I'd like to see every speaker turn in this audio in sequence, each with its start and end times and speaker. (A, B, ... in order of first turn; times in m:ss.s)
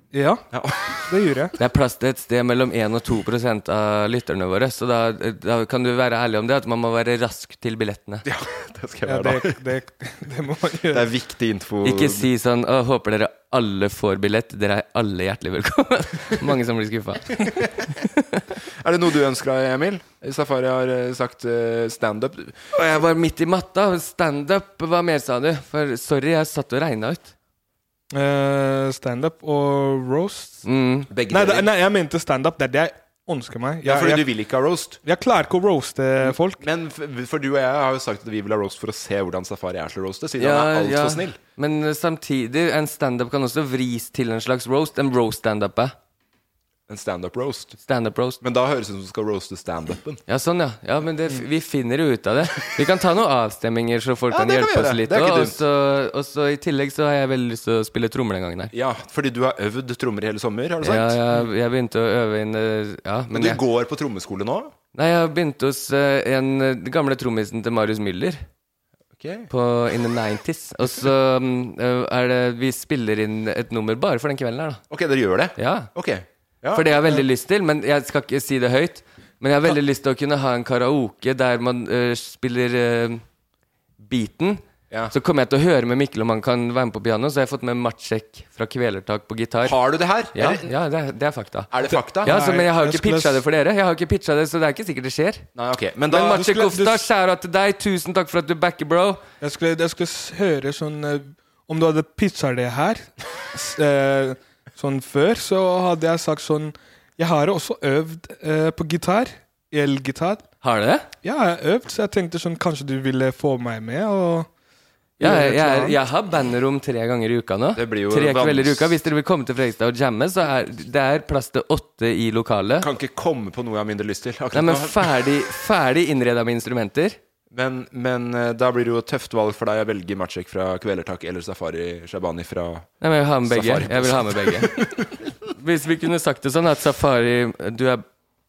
0:00.1-0:00.4 A
0:00.5-0:01.2 B
0:01.1-0:01.5 A
0:01.6-0:08.2 C
0:08.3-0:09.6 B
0:09.1-0:11.1 A
0:10.9-0:12.3 B
0:11.8-0:18.4 C
0:18.8-0:22.6 B
0:22.7-0:27.3 C
0:28.1-0:30.6 A
0:30.6-0:31.1 C
0:31.1-0:31.7 B
0:31.3-0:34.3 A
0:33.8-0:35.0 B
0:35.0-0:36.6 A
0:36.2-0:41.4 B
0:40.4-0:45.9 C
0:46.9-0:47.8 B
0:47.8-0:48.4 C
0:48.4-0:50.2 B
0:50.3-0:58.7 C
0:54.3-0:55.6 B
0:58.7-1:01.2 B
1:00.8-1:03.6 C
1:03.3-1:04.7 B
1:05.0-1:08.4 C
1:09.2-1:09.5 B
1:09.5-1:14.8 C
1:14.9-1:17.2 B
1:15.6-1:15.9 C
1:16.7-1:23.2 C
1:24.0-1:29.8 C
1:29.6-1:30.7 B
1:30.3-1:35.5 C
1:31.7-1:32.4 B
1:31.9-1:33.4 A
1:35.6-1:36.7 B
1:36.1-1:39.2 C
1:36.5-1:37.0 A
1:39.4-1:50.4 A
1:50.6-1:51.1 C
1:51.2-1:54.5 A
1:55.2-1:56.0 A
1:55.2-2:02.9 C
1:57.8-1:59.0 B
2:02.8-2:05.2 B
2:04.5-2:07.2 C
2:07.5-2:12.9 B
2:13.0-2:14.8 C
2:13.4-2:15.1 B
2:15.6-2:18.0 C